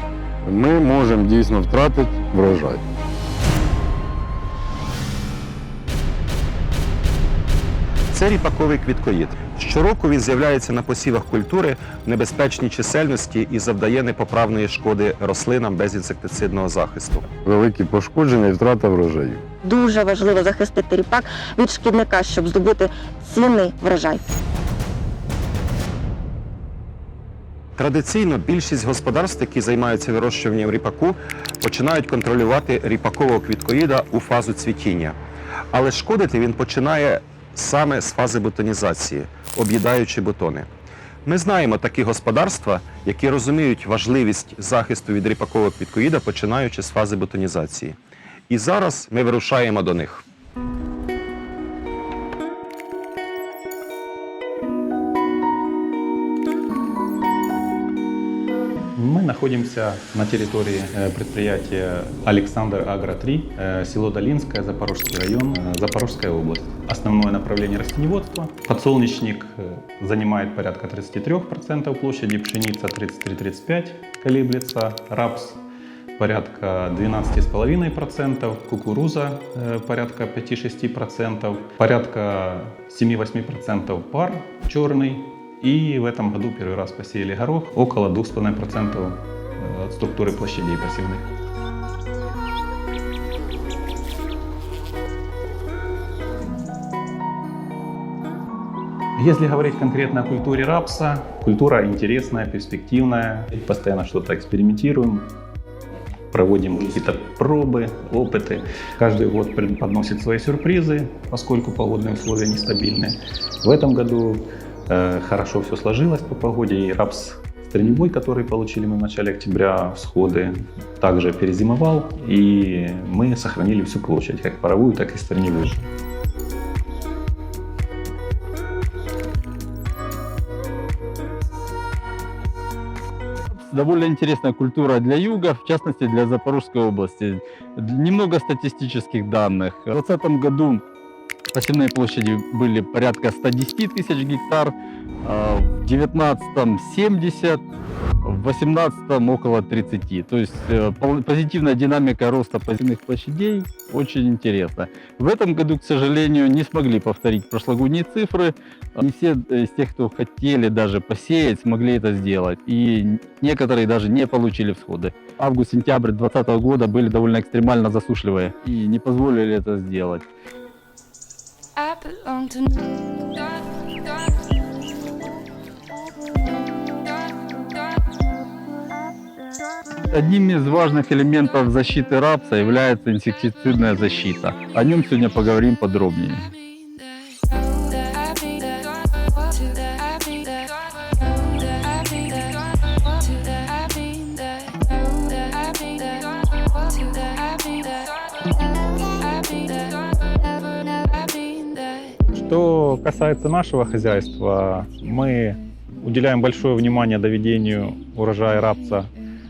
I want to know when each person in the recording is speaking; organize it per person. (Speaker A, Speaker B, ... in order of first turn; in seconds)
Speaker A: 0.4-2.8, 17.4-19.4
Speaker B: 8.1-17.3, 27.8-35.2, 35.7-40.7, 41.2-48.0, 48.5-50.2
Speaker C: 19.6-24.3
Speaker D: 59.0-75.6, 76.2-91.3, 99.2-105.3, 106.3-125.9, 202.3-209.1
Speaker E: 133.5-140.8, 141.5-147.6, 148.2-170.2, 180.1-186.5